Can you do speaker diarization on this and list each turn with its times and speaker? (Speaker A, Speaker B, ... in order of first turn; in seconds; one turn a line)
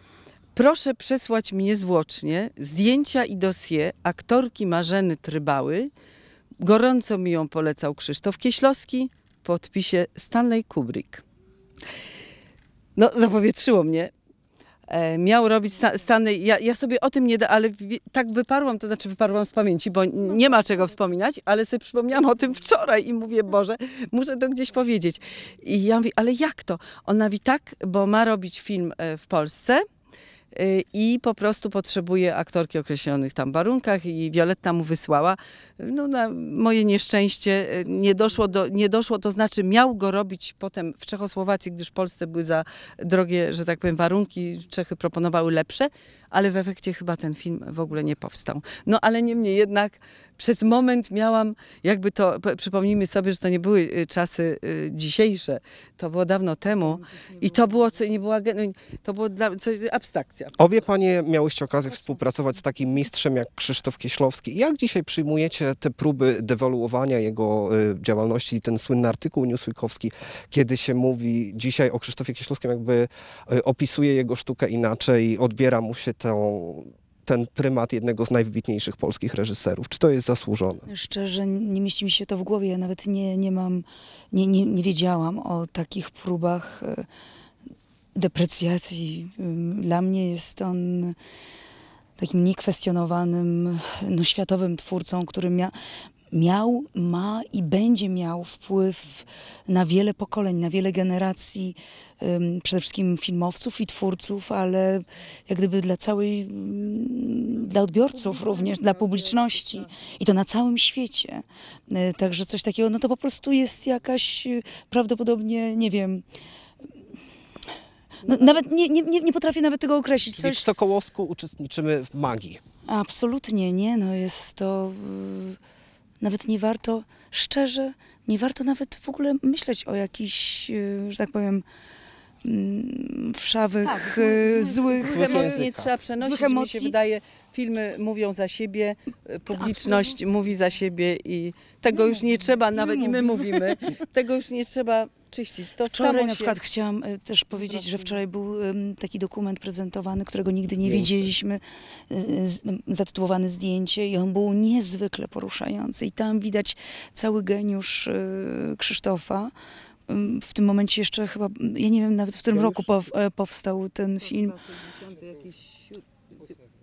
Speaker A: 0.5-5.9
Speaker A: 6.6-11.2
Speaker A: 12.9-14.1
Speaker A: 14.9-29.8
Speaker A: 30.5-60.5
Speaker B: 60.6-80.9
Speaker C: 80.9-87.1
Speaker C: 88.1-91.2
Speaker C: 92.2-95.7
Speaker C: 96.3-116.2
Speaker A: 108.1-109.9
Speaker A: 118.2-118.6
Speaker C: 118.2-120.7
Speaker B: 120.3-122.6
Speaker C: 122.9-125.6
Speaker C: 126.2-131.6
Speaker C: 132.4-136.9
Speaker A: 133.8-146.6
Speaker B: 135.0-135.9
Speaker C: 139.5-140.2
Speaker C: 141.9-142.2
Speaker C: 142.7-143.8
Speaker C: 145.9-159.5
Speaker A: 147.6-148.2
Speaker B: 150.8-151.1
Speaker C: 160.1-164.6
Speaker B: 162.5-162.9
Speaker A: 164.2-166.5